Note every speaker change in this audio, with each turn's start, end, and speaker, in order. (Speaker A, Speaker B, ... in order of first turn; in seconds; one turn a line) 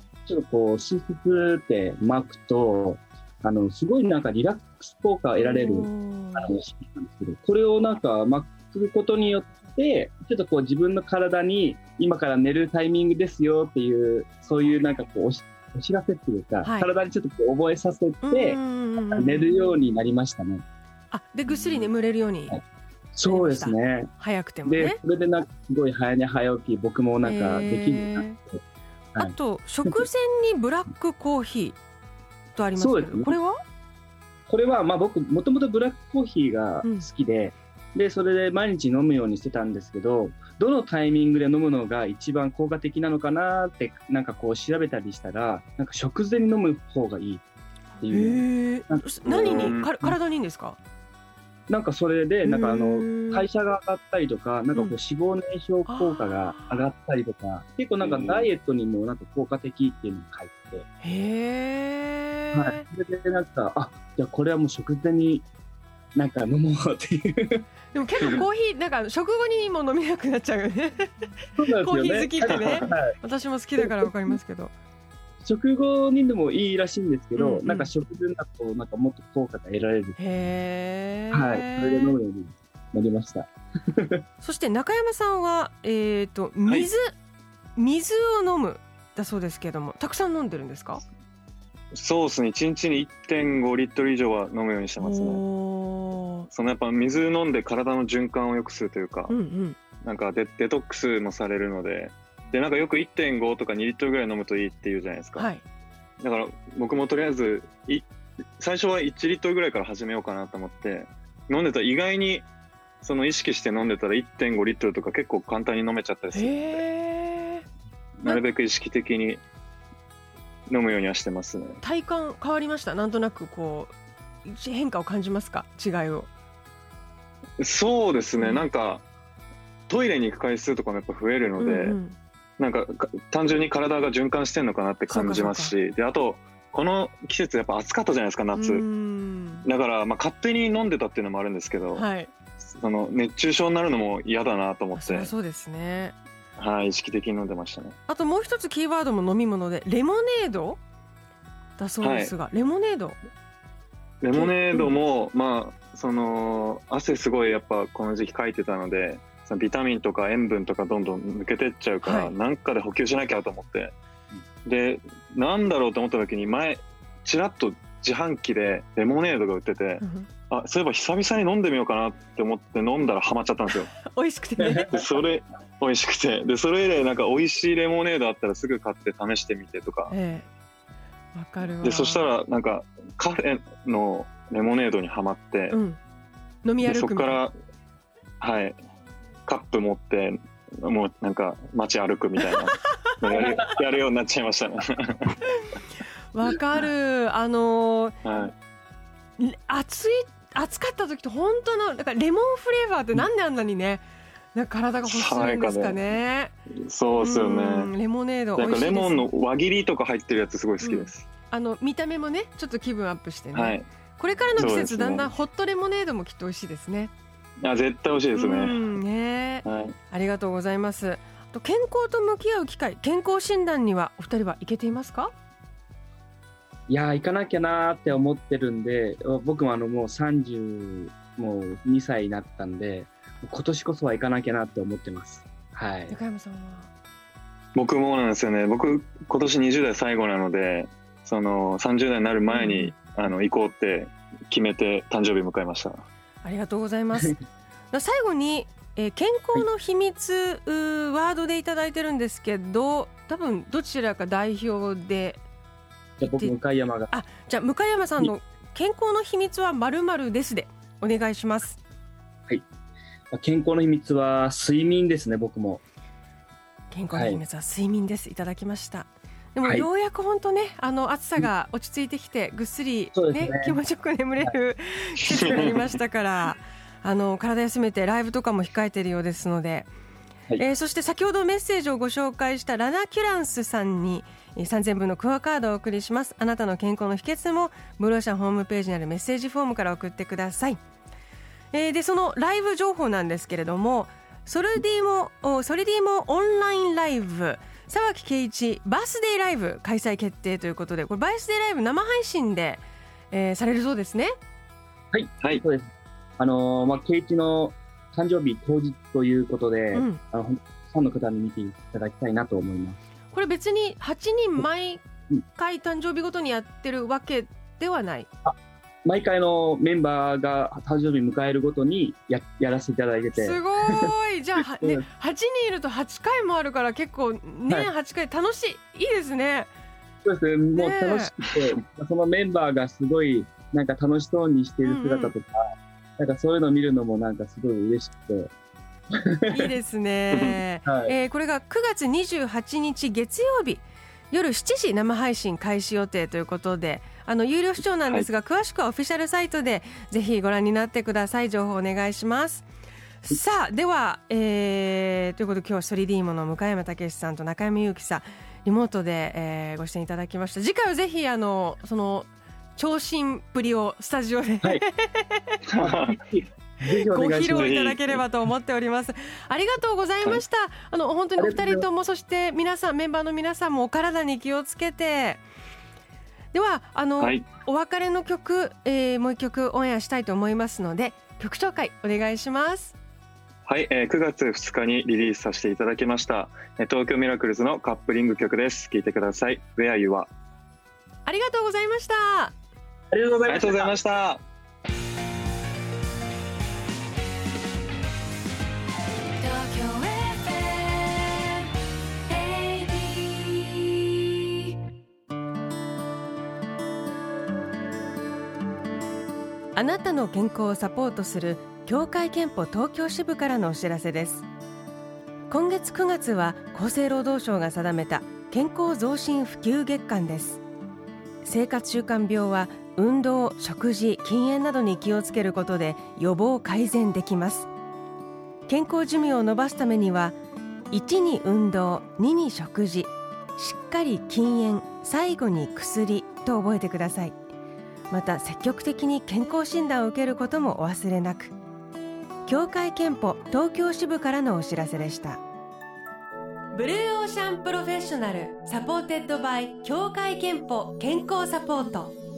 Speaker A: 0.2-20.6
Speaker B: 5.4-6.5
Speaker B: 16.6-16.9
Speaker B: 18.2-19.8
Speaker B: 21.1-22.6
Speaker A: 21.5-21.9
Speaker A: 23.1-24.1
Speaker B: 23.2-25.0
Speaker A: 24.6-28.6
Speaker B: 27.2-28.4
Speaker A: 29.1-30.0
Speaker B: 29.2-31.8
Speaker B: 32.5-33.6
Speaker A: 32.8-33.4
Speaker A: 34.5-47.4
Speaker B: 48.0-50.8
Speaker A: 48.0-50.2
Speaker C: 49.3-49.9
Speaker A: 51.7-60.9
Speaker B: 52.4-53.5
Speaker B: 55.9-56.8
Speaker C: 58.0-58.5
Speaker B: 61.0-62.8
Speaker A: 62.5-65.5
Speaker A: 66.2-67.6
Speaker B: 67.9-74.7
Speaker A: 71.6-73.2
Speaker C: 72.5-72.8
Speaker A: 73.8-74.4
Speaker A: 75.4-80.5
Speaker B: 77.3-77.9
Speaker B: 80.2-82.1
Speaker A: 81.3-84.2
Speaker B: 84.4-87.1
Speaker B: 87.8-91.0
Speaker C: 91.9-95.4
Speaker B: 95.0-96.5
Speaker C: 96.5-99.3
Speaker B: 99.3-99.8
Speaker C: 100.0-105.5
Speaker B: 105.3-105.6
Speaker C: 106.2-108.1
Speaker C: 108.6-112.5
Speaker C: 113.0-116.8
Speaker B: 116.3-117.6
Speaker C: 118.2-119.4
Speaker C: 120.7-121.8
Speaker B: 121.8-123.9
Speaker B: 124.4-126.3
Speaker C: 127.6-129.0
Speaker B: 128.4-128.7
Speaker C: 129.9-132.0
Speaker B: 131.6-132.2
Speaker C: 132.6-138.8
Speaker B: 135.1-135.8
Speaker B: 138.5-139.7
Speaker C: 139.6-142.1
Speaker B: 141.9-142.3
Speaker C: 142.7-145.3
Speaker B: 144.9-146.1
Speaker C: 146.6-147.9
Speaker B: 148.1-150.8
Speaker B: 151.8-153.2
Speaker C: 152.0-152.3
Speaker C: 154.2-163.9
Speaker B: 154.3-154.9
Speaker B: 162.0-162.3
Speaker C: 164.6-173.9
Speaker B: 170.0-170.3
Speaker B: 173.9-174.9
Speaker A: 174.6-174.9
Speaker C: 174.9-180.1
Speaker B: 180.1-180.4
Speaker B: 181.3-182.3
Speaker C: 181.8-185.8
Speaker B: 185.7-186.0
Speaker B: 186.6-187.4
Speaker C: 186.8-187.5
Speaker C: 188.4-188.8
Speaker C: 189.5-195.4
Speaker B: 196.3-198.2
Speaker C: 198.2-198.5
Speaker B: 199.4-206.5
Speaker C: 205.0-206.1
Speaker C: 206.7-207.9
Speaker B: 207.1-209.3
Speaker C: 208.6-211.2
Speaker B: 210.8-217.1
Speaker C: 213.5-213.9
Speaker C: 214.6-215.3
Speaker C: 217.6-218.9
Speaker B: 218.3-225.3
Speaker C: 219.6-219.9
Speaker A: 226.9-236.2
Speaker B: 236.1-236.9
Speaker C: 237.7-246.1
Speaker B: 242.5-242.9
Speaker B: 246.4-247.3
Speaker B: 247.9-255.4
Speaker B: 256.2-256.5
Speaker A: 256.2-257.2
Speaker B: 257.1-261.8
Speaker A: 263.3-265.8
Speaker B: 266.9-279.9
Speaker A: 267.1-267.4
Speaker A: 273.1-273.8
Speaker C: 275.2-275.8
Speaker B: 280.6-290.8
Speaker B: 291.7-304.3
Speaker A: 305.1-313.0
Speaker B: 309.9-310.2
Speaker B: 313.3-315.0
Speaker B: 315.5-318.3
Speaker A: 318.4-324.1
Speaker B: 323.3-329.7
Speaker A: 324.8-325.0
Speaker A: 330.2-335.6
Speaker B: 330.8-331.3
Speaker B: 334.8-335.3
Speaker A: 336.2-338.5
Speaker A: 339.2-339.7
Speaker B: 339.5-352.7
Speaker C: 340.3-340.6
Speaker A: 340.9-341.1
Speaker B: 353.2-365.6
Speaker C: 365.7-366.2
Speaker A: 365.8-367.7
Speaker B: 366.9-375.4
Speaker C: 367.5-368.2
Speaker A: 371.4-371.8
Speaker B: 376.5-382.9
Speaker C: 377.2-377.5
Speaker C: 383.7-390.3
Speaker B: 391.2-392.5
Speaker A: 393.1-393.9
Speaker C: 393.4-394.4
Speaker B: 399.4-401.3
Speaker B: 402.3-403.6
Speaker B: 409.7-414.5
Speaker B: 415.5-420.6
Speaker B: 421.4-427.7
Speaker B: 428.7-430.4
Speaker B: 430.9-437.4
Speaker B: 438.1-441.5
Speaker B: 442.4-445.4
Speaker B: 446.7-452.1